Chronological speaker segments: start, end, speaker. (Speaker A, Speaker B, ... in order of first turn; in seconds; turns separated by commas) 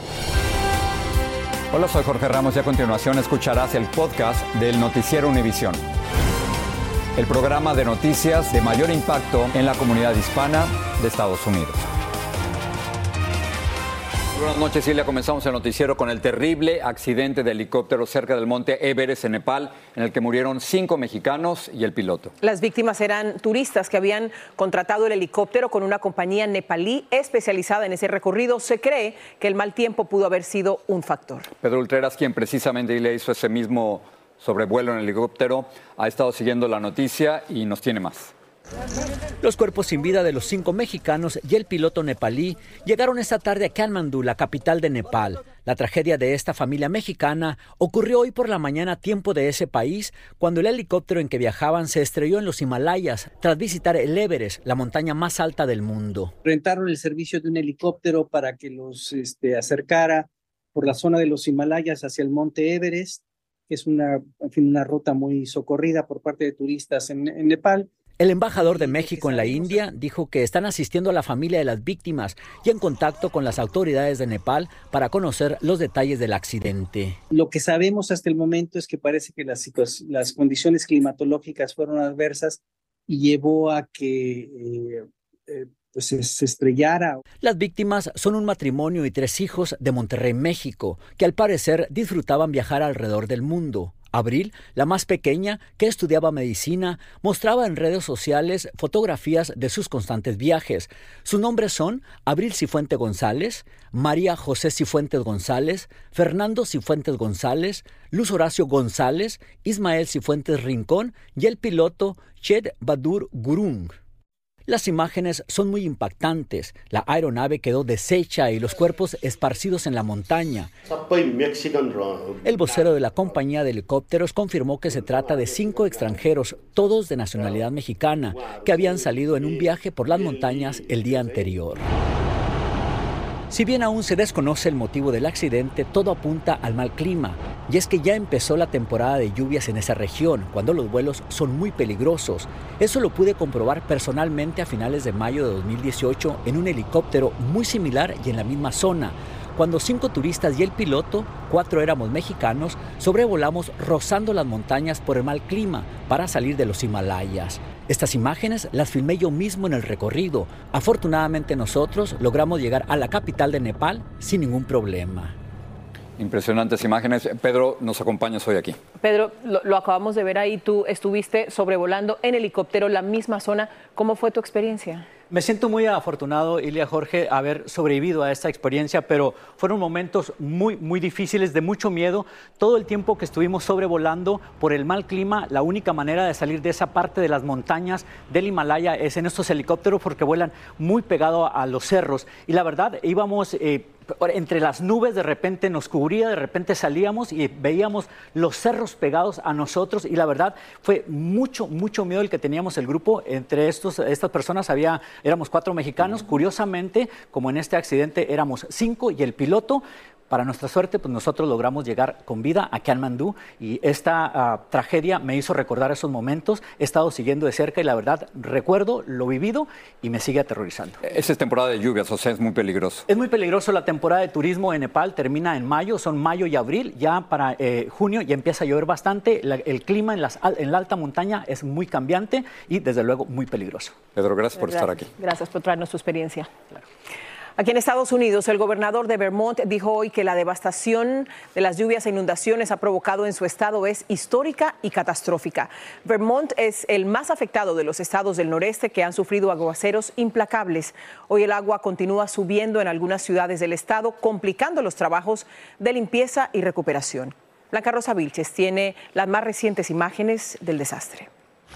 Speaker A: 1.7-5.8, Speaker A: 7.2-11.8, Speaker A: 14.3-22.3, Speaker B: 22.4-31.5, Speaker A: 31.6-38.3, Speaker C: 39.4-56.3, Speaker D: 56.4-67.9, Speaker C: 68.2-77.2, Speaker D: 68.7-69.8, Speaker D: 77.3-87.2, Speaker C: 87.4-114.0, Speaker C: 114.7-120.7, Speaker C: 122.4-131.8, Speaker C: 133.5-165.3, Speaker A: 166.2-168.8, Speaker B: 169.0-175.1, Speaker C: 175.3-221.0, Speaker A: 221.0-223.0, Speaker C: 223.1-233.9, Speaker A: 234.2-235.1, Speaker B: 234.6-236.5, Speaker B: 237.6-261.3